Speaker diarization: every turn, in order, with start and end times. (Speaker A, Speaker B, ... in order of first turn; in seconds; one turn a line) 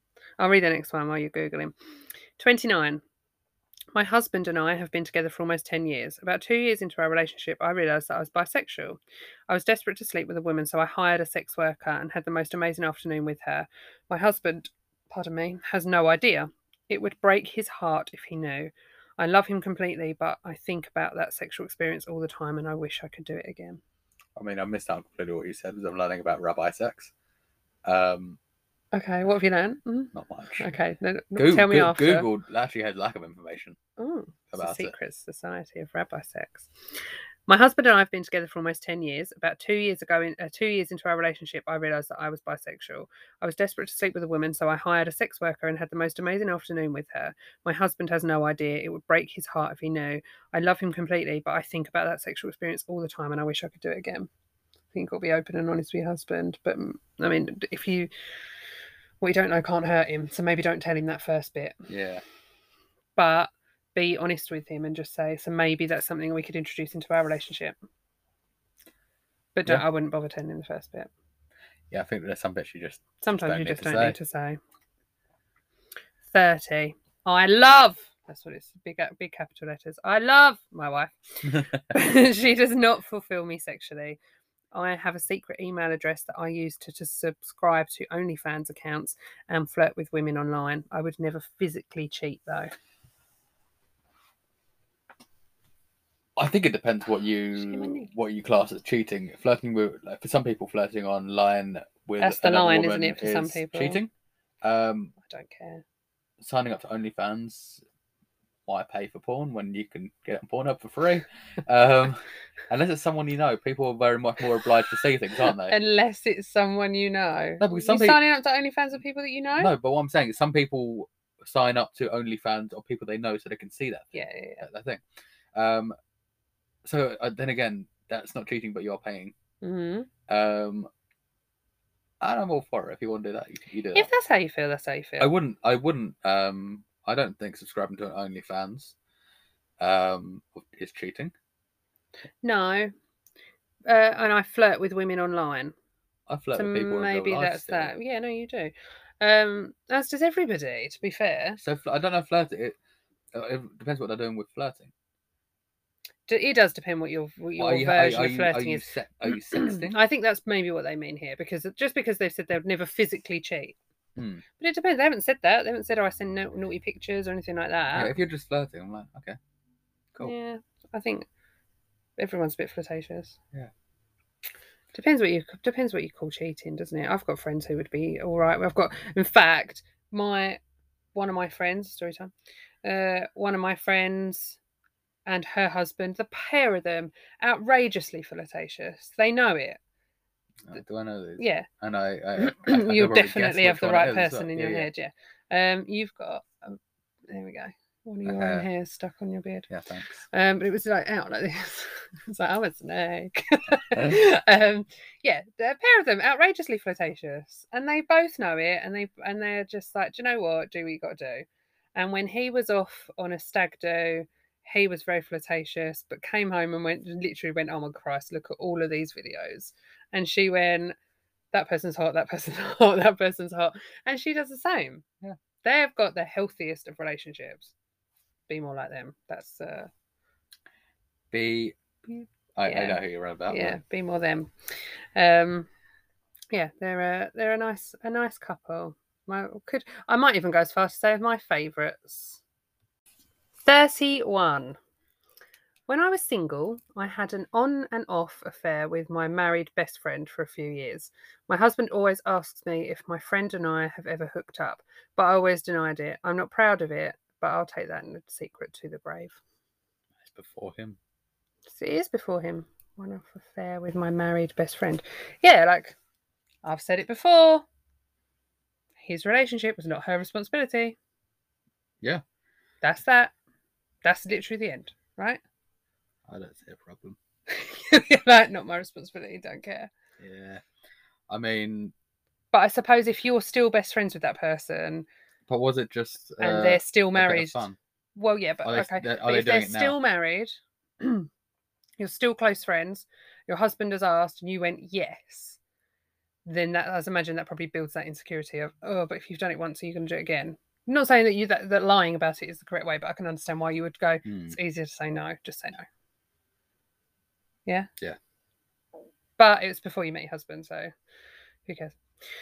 Speaker A: 0.4-1.7
Speaker A: 2.4-3.0
Speaker A: 3.9-23.8
Speaker B: 24.4-27.1
Speaker B: 27.9-28.4
Speaker A: 28.9-32.3
Speaker B: 30.1-30.7
Speaker B: 31.4-33.8
Speaker A: 34.0-36.7
Speaker B: 34.5-34.9
Speaker A: 37.5-54.3
Speaker A: 54.9-58.1
Speaker A: 59.2-61.9
Speaker B: 61.9-62.2
Speaker A: 63.2-67.8
Speaker A: 69.5-71.1
Speaker B: 71.9-74.2
Speaker A: 73.2-74.6
Speaker A: 76.3-84.2
Speaker B: 81.4-81.8
Speaker A: 84.7-92.7
Speaker B: 96.4-104.1
Speaker A: 97.6-98.1
Speaker A: 102.2-104.0
Speaker B: 104.6-105.1
Speaker A: 105.2-105.8
Speaker B: 106.4-107.8
Speaker B: 108.7-115.8
Speaker A: 115.7-119.7
Speaker B: 117.6-118.2
Speaker B: 119.6-125.0
Speaker A: 124.1-124.7
Speaker B: 125.5-126.0
Speaker B: 126.8-129.3
Speaker A: 129.6-130.1
Speaker B: 130.3-130.9
Speaker B: 132.2-134.1
Speaker A: 133.9-135.3
Speaker B: 135.2-138.9
Speaker B: 139.8-141.3
Speaker A: 142.4-142.9
Speaker A: 143.9-145.7
Speaker B: 146.3-147.9
Speaker A: 146.5-151.6
Speaker B: 151.6-152.8
Speaker B: 153.3-154.9
Speaker A: 156.3-163.8
Speaker B: 157.6-160.0
Speaker B: 164.2-164.4
Speaker A: 164.6-168.1
Speaker B: 167.9-169.4
Speaker A: 170.2-171.3
Speaker A: 172.2-173.4
Speaker A: 174.9-180.6
Speaker A: 181.2-182.3
Speaker A: 182.8-184.6
Speaker A: 185.3-189.8
Speaker B: 190.7-194.9
Speaker A: 191.4-191.7
Speaker A: 192.4-199.7
Speaker B: 198.2-198.7
Speaker B: 199.7-200.2
Speaker A: 200.3-221.0
Speaker B: 203.9-204.2
Speaker A: 221.5-225.1
Speaker A: 225.6-227.7
Speaker A: 228.5-229.9
Speaker B: 231.3-233.8
Speaker A: 232.6-235.7
Speaker A: 236.5-242.4
Speaker A: 243.6-244.8
Speaker A: 245.9-259.4
Speaker B: 260.2-261.0
Speaker A: 261.7-266.0
Speaker A: 266.6-267.7
Speaker A: 269.0-271.0
Speaker A: 272.8-273.3
Speaker A: 274.0-275.4
Speaker B: 276.3-277.2
Speaker A: 277.5-279.9
Speaker B: 280.2-280.6
Speaker B: 281.3-281.9
Speaker A: 282.5-285.1
Speaker B: 285.5-287.8
Speaker A: 286.4-287.6
Speaker A: 288.1-291.3
Speaker B: 288.6-290.0
Speaker A: 292.0-295.6
Speaker A: 296.4-305.9
Speaker B: 304.2-304.6
Speaker A: 309.4-310.9
Speaker A: 311.7-312.0